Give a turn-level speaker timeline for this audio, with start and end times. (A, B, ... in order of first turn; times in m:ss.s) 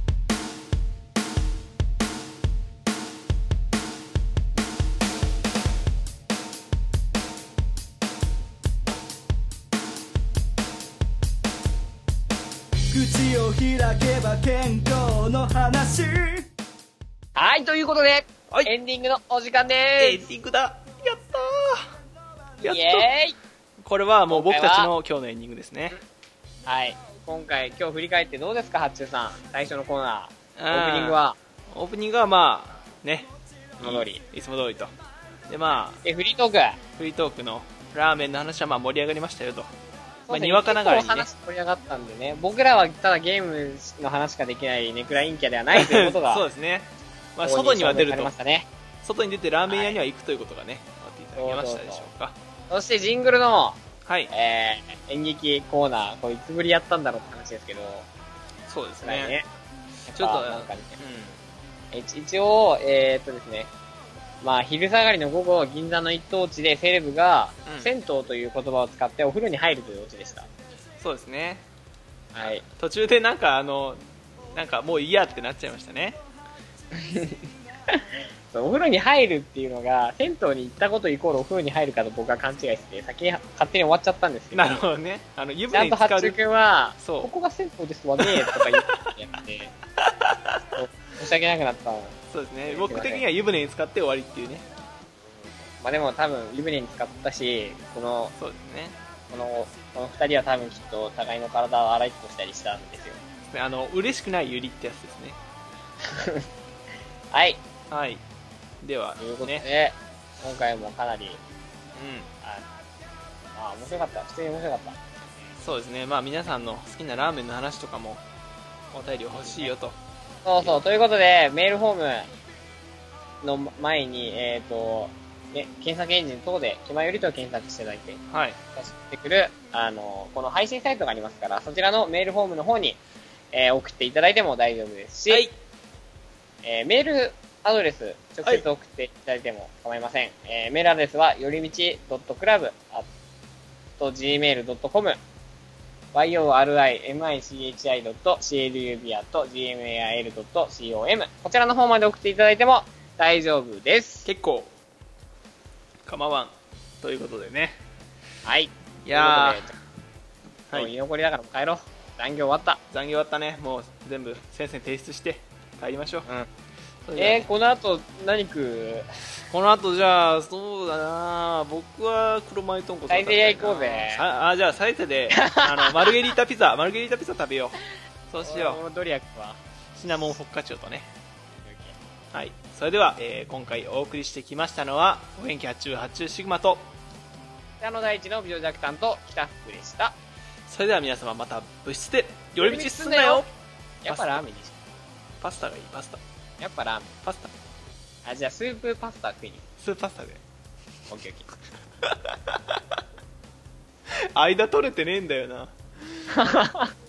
0:12.9-0:16.5 A
0:17.4-0:20.3 B
0:20.0-0:21.9 C
0:22.6-0:23.1 C
0:22.6-0:23.4 B
0:23.8-0:26.0 C
0:24.3-0:24.9 B
0:26.6-0:31.4 B
0:30.6-0:34.9 C
0:33.8-0:34.2 B
0:35.5-0:36.0 C
0:36.0-0:36.8 B
0:37.0-0:39.7 C
0:40.3-0:46.4 B
0:40.3-0:41.3 C
0:45.7-0:48.3 C
0:47.4-0:48.7 B
0:49.0-0:52.4 C
0:49.7-0:50.0 B
0:51.4-0:52.1 B
0:52.7-0:58.0 B
0:54.0-0:54.3 C
0:58.7-0:59.4 C
0:59.0-0:59.4 B
1:00.1-1:01.0 B
1:00.1-1:01.4 C
1:01.9-1:03.7 B
1:04.4-1:10.5 B
1:07.6-1:07.9 C
1:11.0-1:11.6 C
1:12.3-1:12.6 B
1:12.8-1:14.0 C
1:14.5-1:16.2 C
1:16.9-1:24.8 B
1:24.5-1:26.4 C
1:25.7-1:29.7 B
1:27.0-1:27.3 C
1:28.2-1:29.1 C
1:30.0-1:30.8 C
1:30.8-1:33.2 B
1:32.3-1:34.7 C
1:35.6-1:38.3 B
1:38.4-1:39.0 C
1:39.3-1:43.2 B
1:43.5-1:45.4 C
1:46.0-1:46.5 B
1:47.3-1:47.6 B
1:47.9-1:48.2 C
1:48.8-1:49.6 C
1:49.2-1:51.4 B
1:52.0-1:52.3 C
1:53.6-1:55.0 B
1:55.6-1:58.2 C
1:58.9-2:00.0 C
2:00.4-2:02.3 B
2:03.4-2:08.2 B
2:08.3-2:08.6 C
2:08.7-2:13.0 B
2:13.5-2:15.5 B
2:16.6-2:23.1 B
2:24.0-2:25.2 B
2:26.1-2:34.3 B
2:34.2-2:34.7 C
2:36.0-2:37.8 C
2:38.4-2:39.7 B
2:39.0-2:39.7 C
2:40.7-2:42.8 B
2:42.9-2:46.3 C
2:47.1-2:47.5 C
2:47.2-2:49.0 B
2:49.5-2:57.8 C
2:53.1-2:54.2 B
2:55.3-2:56.2 B
2:58.3-2:58.8 C
2:58.4-2:59.6 B
2:59.9-3:01.1 C
3:01.6-3:02.0 B
3:02.3-3:06.9 C
3:07.8-3:10.2 B
3:10.7-3:13.5 C
3:12.6-3:13.4 B
3:14.0-3:14.8 B
3:14.1-3:14.4 C
3:15.4-3:16.2 C
3:16.6-3:17.1 B
3:17.2-3:17.5 C
3:18.2-3:19.7 B
3:19.8-3:20.4 C
3:21.1-3:21.5 B
3:22.0-3:23.0 C
3:24.1-3:26.2 C
3:26.3-3:26.9 B